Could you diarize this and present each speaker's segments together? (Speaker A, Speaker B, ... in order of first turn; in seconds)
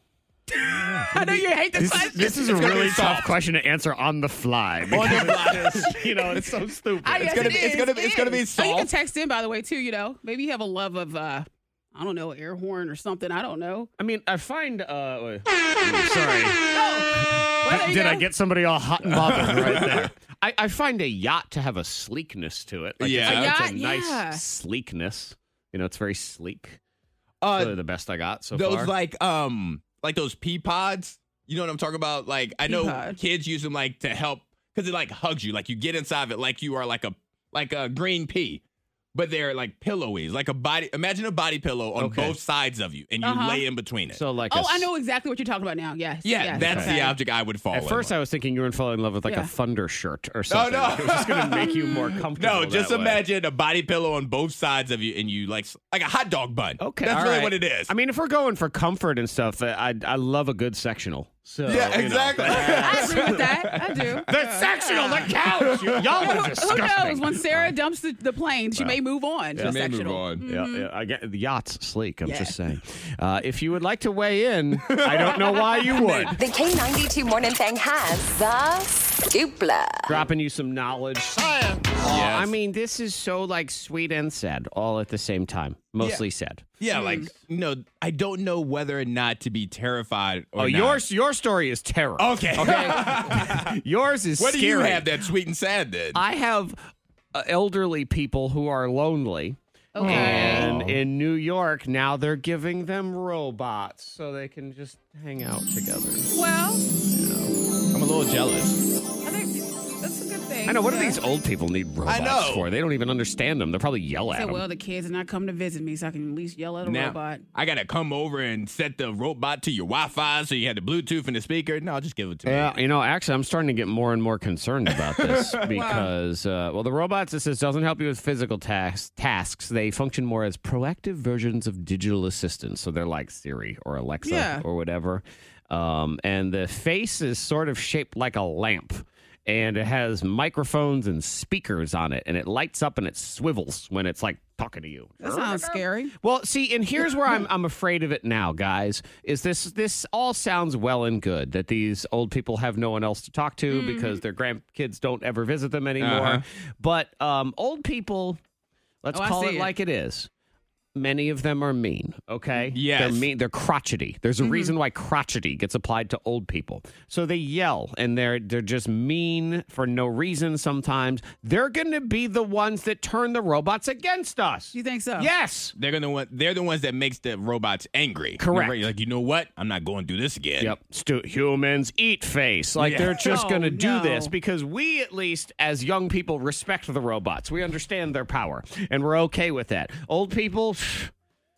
Speaker A: 0.5-2.6, 5.7-6.4, 7.0-13.9, 16.6-18.3, 23.2-24.4, 32.6-33.2, 43.2-43.6, 44.5-47.2, 49.2-49.5, 62.4-65.3, 66.2-70.9, 72.2-72.5, 75.5-76.4, 86.9-87.3, 99.9-100.7, 106.3-106.9, 109.2-111.2, 114.3-117.4, 125.7-126.1, 134.2-134.6, 145.2-146.1, 153.7-154.2, 159.1-159.7, 164.4-164.7, 174.7-175.3, 183.2-184.3
Speaker B: 0.7-7.7, 14.0-26.8, 27.5-28.9, 42.0-42.4, 44.1-44.9, 46.6-46.9, 47.7-53.2, 56.8-63.4, 64.2-67.8, 69.5-69.8, 70.4-76.4, 80.0-86.7, 90.6-95.2, 96.1-106.3, 107.0-107.5, 110.7-114.6, 122.5-158.4, 159.0-160.3, 160.9-175.7, 178.4-178.9, 180.6-191.1
Speaker C: 1.7-3.3, 4.9-5.9, 7.2-8.9, 19.2-20.0, 23.0-23.5, 27.4-27.8, 28.5-38.6, 39.1-44.2, 46.2-48.1, 50.5-57.9, 61.7-64.2, 65.6-66.4, 69.6-70.4, 74.9-75.7, 82.0-82.5, 86.8-91.0, 92.2-93.8, 94.4-96.2, 100.0-101.0, 107.9-108.8, 112.0-112.7, 116.8-122.8, 125.0-125.7, 156.0-156.4, 162.7-163.2, 175.8-180.7, 182.8-183.4
Speaker D: 76.3-80.2